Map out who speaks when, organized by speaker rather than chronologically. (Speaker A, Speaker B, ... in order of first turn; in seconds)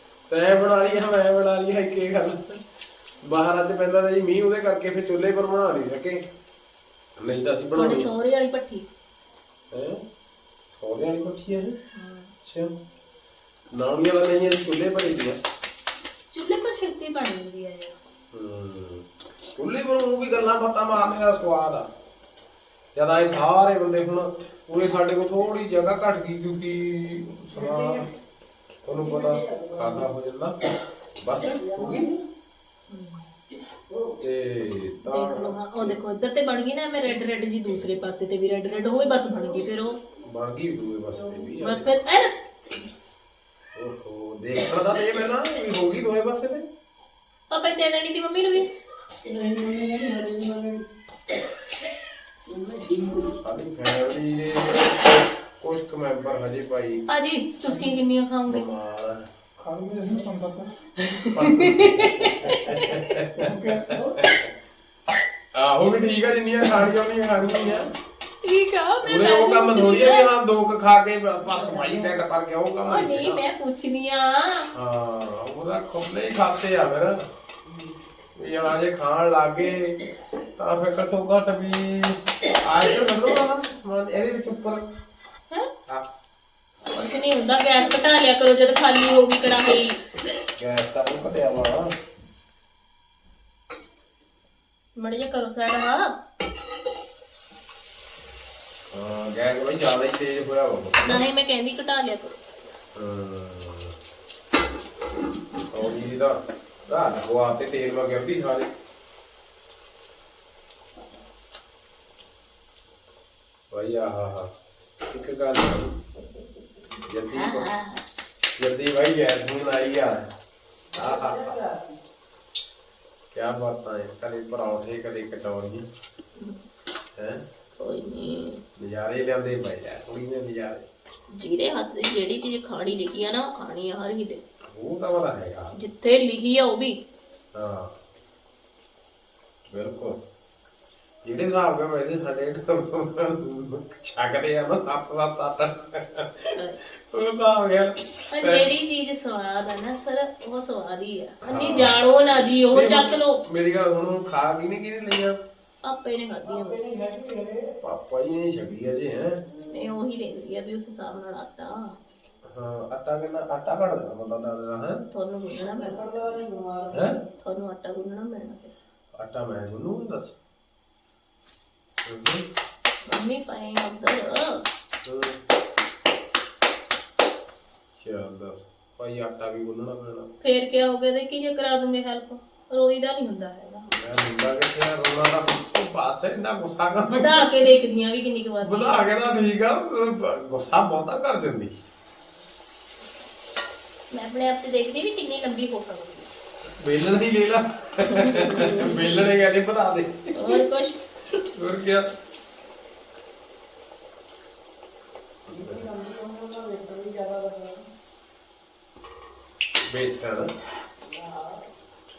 Speaker A: 0.3-2.6, 3.2-6.3, 7.2-8.1, 9.7-10.0, 10.7-11.8, 12.4-12.8, 13.7-15.4, 18.3-21.9, 22.9-28.1, 28.8-30.6, 31.2-32.1, 34.2-36.0, 40.2-41.9, 43.7-46.7, 53.3-57.0, 58.5-59.3, 61.3-64.5, 65.5-67.9, 69.0-73.4, 74.7-77.3, 78.3-80.0, 80.6-84.8, 90.6-91.9, 98.9-101.2, 102.9-104.0, 105.7-108.7, 113.7-114.5, 115.0-116.0, 117.1-117.7, 118.6-120.3, 120.9-121.6, 123.3-125.9, 127.2-127.5, 128.8-130.9, 134.7-135.7, 137.5-137.9, 139.6-140.2, 141.2-148.7, 151.4-155.4, 157.8-159.4, 162.4-165.0, 166.9-167.2, 169.1-170.4, 172.1-172.4, 175.0-175.4, 178.0-180.3, 183.9-187.7, 188.6-191.7, 196.7-200.6, 201.3-202.1, 205.5-205.8, 209.9-210.5
Speaker B: 7.7-8.9, 11.9-12.3, 16.3-17.9, 32.9-33.2, 35.0-40.0, 41.6-42.3, 47.5-48.7, 57.1-58.7, 61.4-63.2, 63.9-64.2, 68.4-70.3, 72.8-74.7, 86.9-90.0, 95.0-96.1, 101.0-102.4, 117.3-118.0, 126.3-126.6, 127.8-128.6, 131.3-134.4, 135.7-137.0, 146.5-146.8, 148.3-153.4, 155.8-156.8, 159.5-162.0, 165.1-166.4, 167.3-168.7, 173.1-174.6, 180.4-183.9, 187.1-189.1, 194.1-196.3, 198.0-199.2, 200.3-201.0
Speaker C: 27.5-28.1, 28.9-30.1, 31.5-32.2, 33.9-34.1, 49.2-50.8, 52.5-53.4, 59.6-61.4, 63.4-64.0, 120.9-122.0, 156.4-157.7, 165.6-167.2, 205.5-207.9, 211.0-211.6